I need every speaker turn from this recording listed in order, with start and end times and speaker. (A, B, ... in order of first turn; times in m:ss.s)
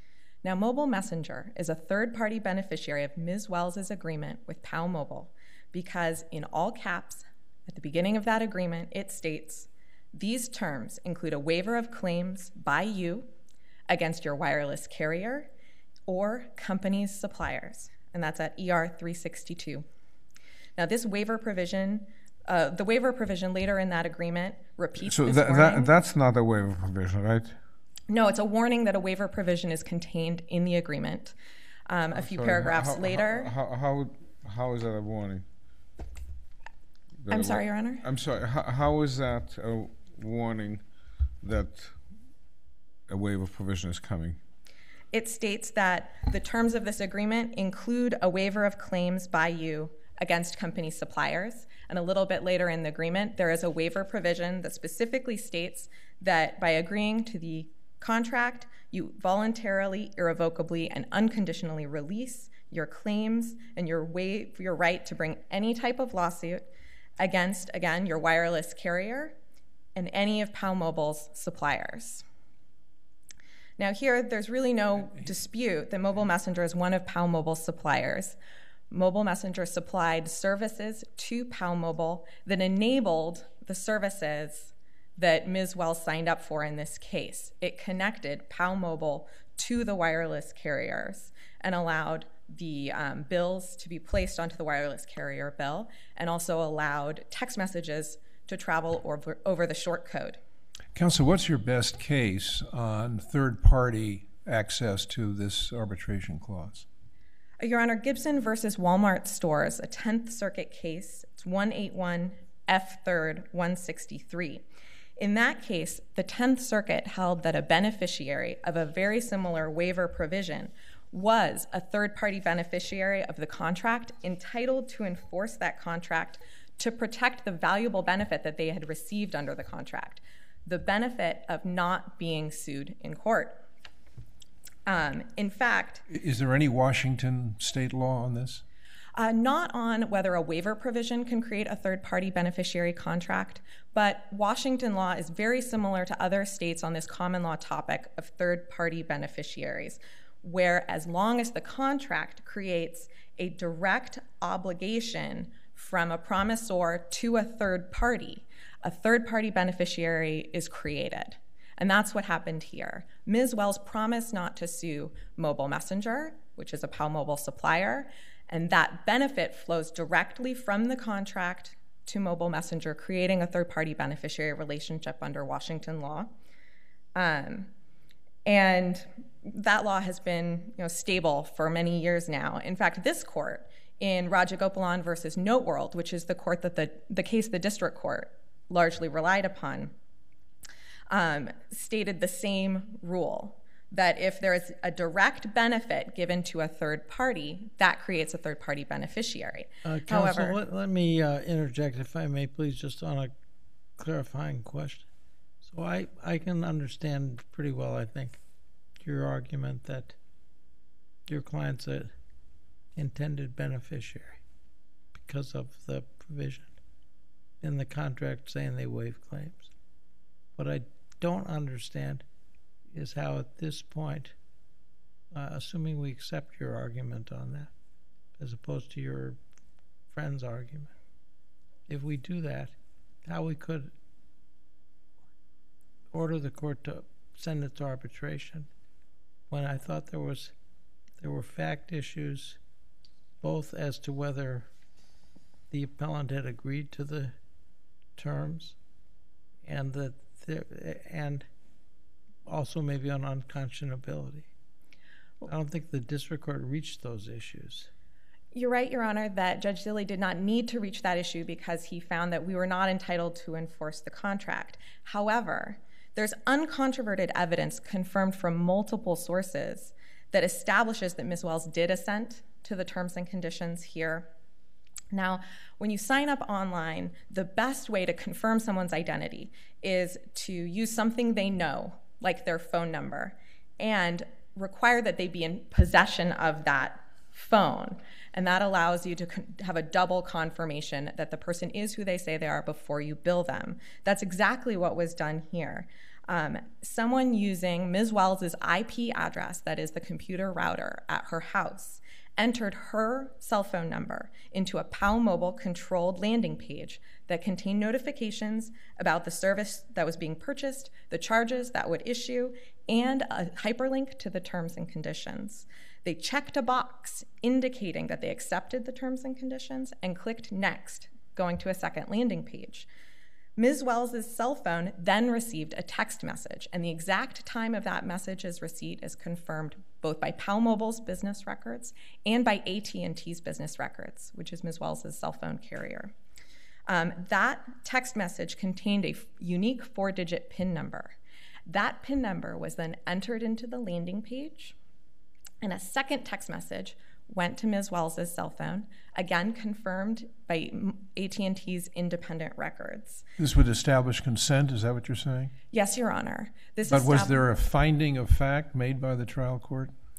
0:00.4-0:13.3 A
0:13.9-0:15.5 A
0:16.1-0:19.8 A
0:20.8-0:25.9 A
0:25.0-0:27.6 B
0:28.1-0:31.3 A
0:31.9-0:33.5 A
0:32.1-0:35.4 B
0:37.2-0:40.8 B
0:37.3-0:38.0 A
0:41.4-0:42.0 B
0:43.1-0:44.4 B
0:45.1-1:09.4 A
1:09.9-1:12.2 A
1:13.8-1:18.4 A
1:18.9-1:40.4 A
1:40.9-1:46.8 C
1:47.6-1:54.6 A
1:55.2-2:13.6 A
2:14.8-2:16.0 A
2:16.1-2:18.6 C
2:19.2-2:56.3 A
2:57.1-2:57.7 A
2:58.4-3:09.9 A
3:11.1-3:20.6 A
3:19.8-3:23.3 D
3:24.0-3:25.1 D
3:25.6-3:28.4 D
3:29.0-3:30.2 D
3:31.3-3:32.1 D
3:32.9-3:34.4 D
3:35.2-3:36.7 D
3:37.6-3:39.7 D
3:40.6-3:42.2 D
3:42.9-3:44.3 D
3:45.3-3:47.7 D
3:48.4-3:49.4 D
3:50.1-3:50.9 D
3:51.9-3:53.9 D
3:56.1-3:58.7 D
3:59.5-4:00.5 D
4:01.2-4:02.6 D
4:03.4-4:04.7 D
4:05.7-4:07.3 D
4:08.2-4:08.8 D
4:09.6-4:11.4 D
4:12.4-4:14.5 D
4:15.4-4:17.9 D
4:18.5-4:34.3 A
4:35.1-5:22.9 A
5:23.6-5:36.1 A
5:36.9-5:41.2 A
5:41.7-5:44.7 A
5:45.6-5:53.2 A
5:53.4-5:55.5 C
5:55.7-5:57.4 A
5:56.9-5:59.9 C